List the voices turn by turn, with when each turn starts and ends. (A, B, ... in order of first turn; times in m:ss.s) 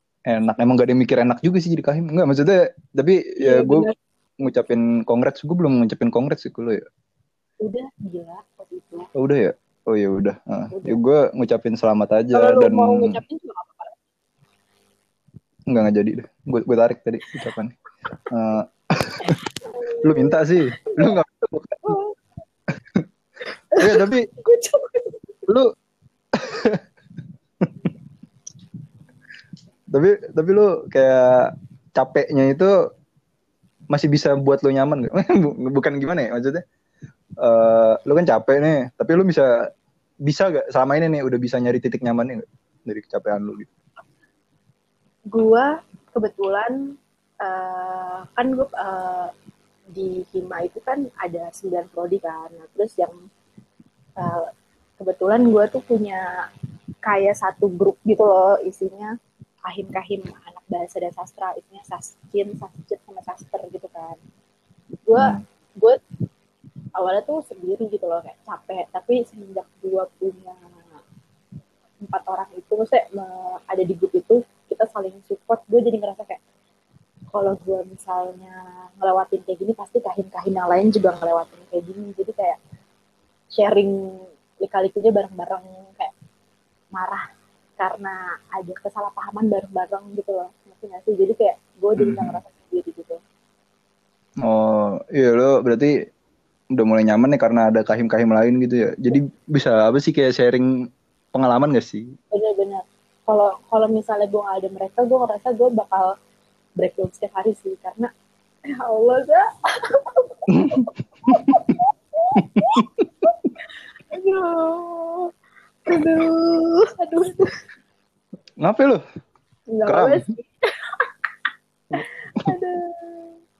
0:00.3-0:03.9 A
0:03.4-0:04.0 B
0:04.4-0:06.8 A
0:07.6-0:09.1 B
0:09.2-0:13.2 A
0:10.7-0:11.0 B
0:12.3-0:13.9 B
0:15.7-0:17.8 A
0:18.3-0:19.4 A
0:19.2-0:20.4 B
0:20.0-0:22.0 A
0:21.9-0:22.2 B
0:23.8-0:25.2 B
0:23.8-0:24.3 A
0:26.4-0:26.8 A
0:29.9-0:32.7 A
0:33.9-0:36.6 A
0:37.4-0:39.5 A
0:40.3-0:43.7 A
0:45.3-0:46.8 B
0:47.4-0:49.3 B
0:49.9-0:53.2 B
0:54.2-0:54.5 B
0:55.0-0:56.2 B
0:57.0-0:59.1 B
0:59.6-1:04.2 B
1:05.1-1:06.0 B
1:05.2-1:05.4 A
1:07.0-1:10.6 B
1:12.0-1:16.4 B
1:17.3-1:22.6 B
1:23.5-1:24.0 B
1:24.6-1:26.1 B
1:26.9-1:27.2 B
1:27.8-1:33.2 B
1:32.0-1:32.4 A
1:34.4-1:35.9 A
1:36.8-1:40.7 A
1:41.3-1:42.1 A
1:42.3-1:46.1 B
1:46.8-1:48.1 B
1:48.7-1:53.4 B
1:50.5-1:51.8 A
1:52.4-1:53.3 A
1:54.1-1:55.3 B
1:55.8-1:57.5 B
1:58.6-1:59.0 A
1:59.7-2:01.1 B
1:59.9-2:00.2 A
2:02.0-2:02.5 A
2:02.0-2:03.3 B